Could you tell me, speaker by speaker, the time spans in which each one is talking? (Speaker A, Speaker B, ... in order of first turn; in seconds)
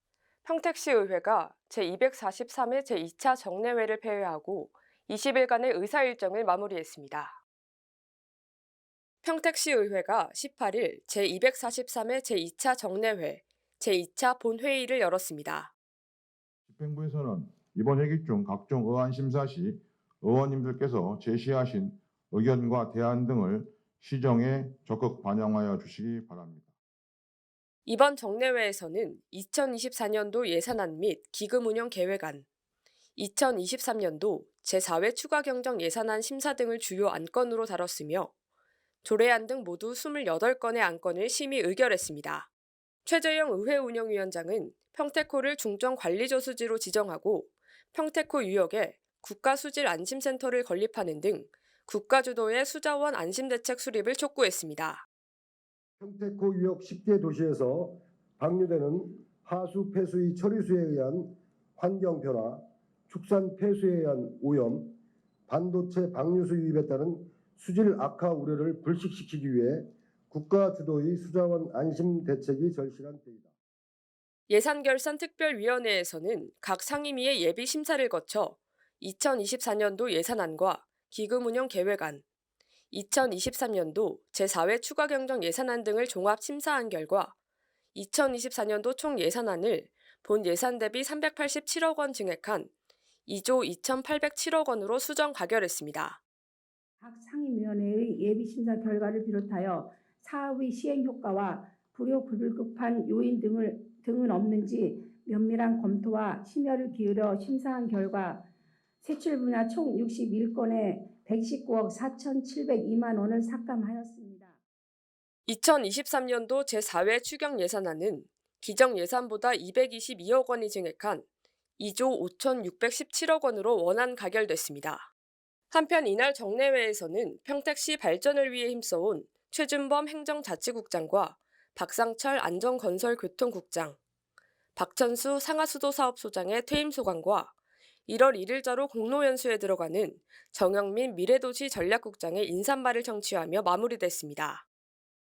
Speaker A: 0.4-7.4, 9.2-15.7, 27.8-32.5, 33.1-38.3, 39.0-42.5, 43.0-55.0, 74.5-82.2, 82.9-87.3, 87.9-92.7, 93.2-96.2, 115.5-121.2, 121.8-125.1, 125.7-134.0, 134.8-137.5, 138.1-144.6
Speaker B: 16.7-26.7
Speaker C: 56.0-64.9, 65.5-73.5
Speaker D: 97.0-108.4, 109.0-114.6